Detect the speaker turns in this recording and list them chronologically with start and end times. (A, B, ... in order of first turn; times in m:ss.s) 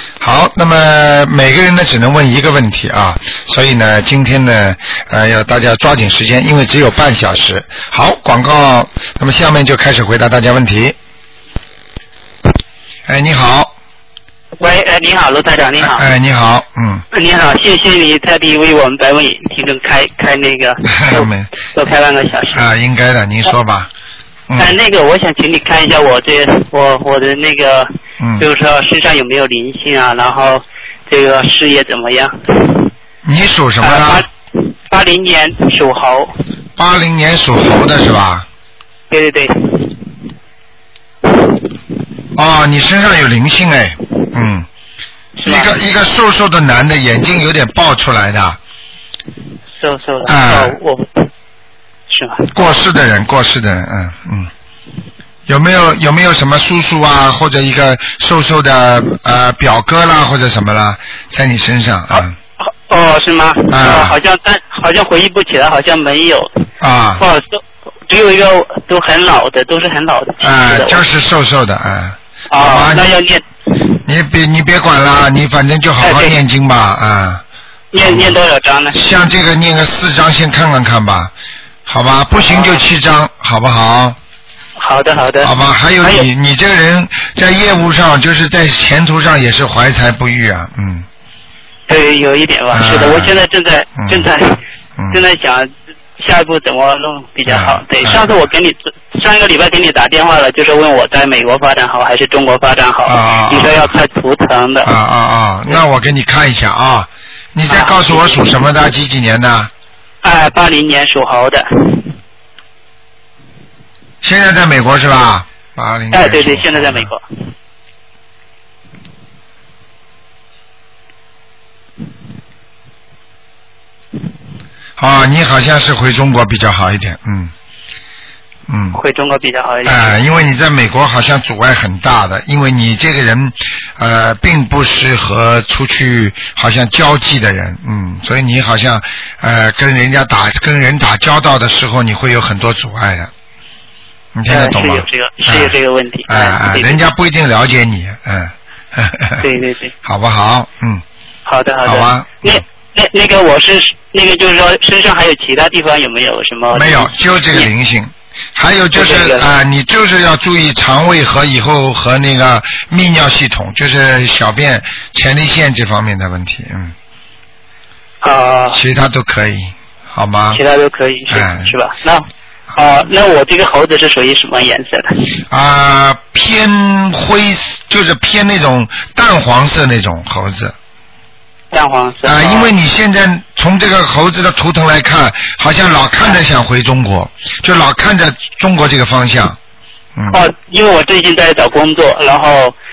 0:00.2-0:11.0 A
0:13.1-0:13.7 A
0:14.6-0:16.1 B
0:15.8-0:17.0 A
0:17.1-0:22.7 B
0:20.9-0:21.5 A
0:22.5-0:23.9 A
0:24.5-0:24.8 A
0:24.6-0:32.9 B
0:28.2-0:28.5 A
0:33.2-0:34.3 A
0:33.8-0:36.3 B
0:36.8-0:38.5 A
0:39.1-0:40.0 B
0:41.3-0:41.6 B
0:42.4-0:44.7 A
0:45.4-0:45.7 B
0:45.4-0:48.6 A
0:49.8-0:51.3 B
0:50.2-0:50.8 A
0:52.1-0:52.5 B
0:52.5-0:54.5 A
0:55.5-1:02.3 A
1:02.1-1:06.5 B
1:03.7-1:04.2 A
1:06.8-1:07.2 A
1:07.2-1:11.0 B
1:10.4-1:13.1 A
1:12.5-1:13.4 B
1:14.0-1:17.4 A
1:16.0-1:16.4 B
1:17.9-1:19.0 B
1:18.0-1:18.4 A
1:18.9-1:21.3 A
1:21.9-1:24.2 A
1:22.3-1:22.8 B
1:24.8-1:26.3 B
1:25.4-1:31.1 A
1:31.9-1:34.6 B
1:32.7-1:33.3 A
1:34.0-1:34.3 A
1:35.1-1:44.9 B
1:37.5-1:38.4 A
1:43.0-1:43.9 A
1:44.8-1:49.7 A
1:47.7-1:48.7 B
1:50.2-1:52.1 B
1:54.2-1:57.1 A
1:56.1-1:57.2 B
2:05.0-2:07.5 A
2:08.7-2:09.0 A
2:08.9-2:10.2 B
2:09.8-2:23.3 A
2:24.4-2:25.8 A
2:24.5-2:27.0 B
2:26.3-2:29.5 A
2:29.4-2:29.9 B
2:30.0-2:31.0 A
2:31.4-2:37.7 B
2:31.8-2:32.6 A
2:36.7-2:47.0 A
2:38.9-2:39.5 B
2:48.2-2:48.8 B
2:48.7-2:50.6 A
2:50.5-2:55.3 B
2:51.3-2:51.7 A
2:55.5-3:00.8 A
3:01.7-3:02.7 B
3:02.2-3:09.6 A
3:10.2-3:10.4 A
3:10.3-3:12.8 B